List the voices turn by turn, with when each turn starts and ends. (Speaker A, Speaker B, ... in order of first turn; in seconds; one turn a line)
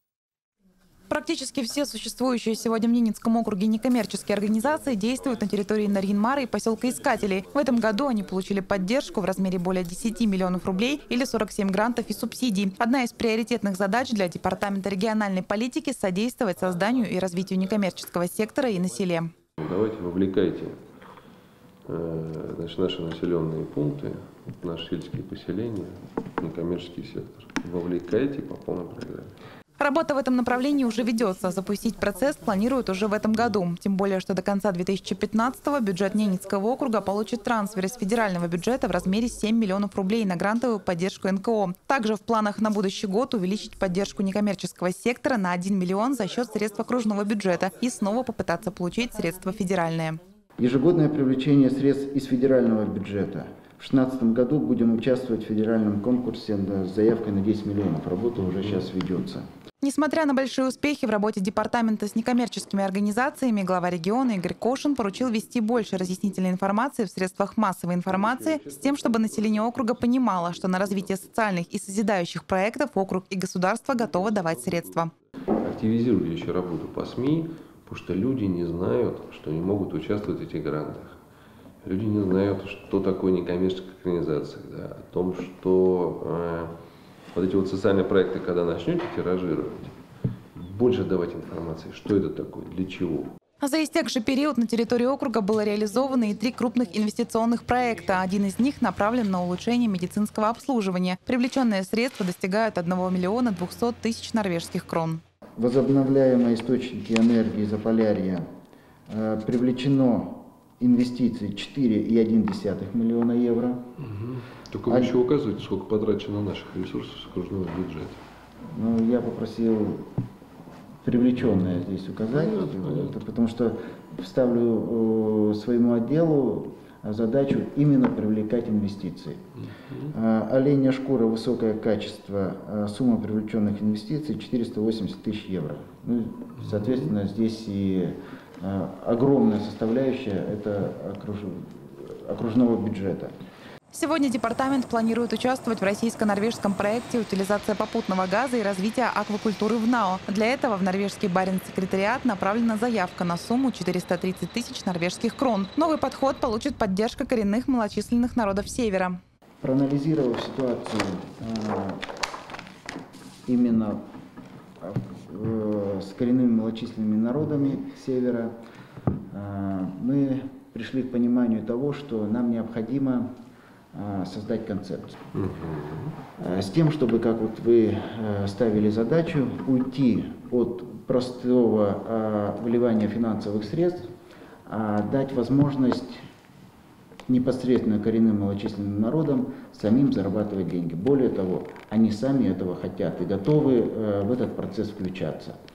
Speaker A: 1.1-19.3
Speaker B: 19.6-20.8
Speaker B: 21.9-29.3
Speaker A: 29.8-50.2
Speaker C: 50.6-59.4
Speaker A: 59.8-75.1
Speaker B: 68.1-69.6
Speaker B: 74.0-74.9
Speaker B: 75.6-81.2
Speaker B: 81.8-86.7
Speaker B: 87.3-90.0
Speaker B: 90.5-93.3
Speaker A: 93.6-105.2
Speaker C: 105.6-108.5
Speaker C: 109.1-113.9
Speaker B: 114.0-118.2
Speaker C: 114.9-115.2
Speaker C: 118.7-120.1
Speaker C: 121.0-129.5
Speaker B: 121.4-123.2
Speaker C: 130.1-143.3
Speaker A: 143.9-159.2
Speaker C: 159.6-162.0
Speaker C: 163.4-164.0
Speaker C: 164.8-168.6
Speaker C: 169.3-173.3
Speaker C: 173.9-175.2
Speaker B: 175.3-176.1
Speaker C: 176.4-184.1
Speaker C: 184.7-186.2
Speaker C: 187.3-195.6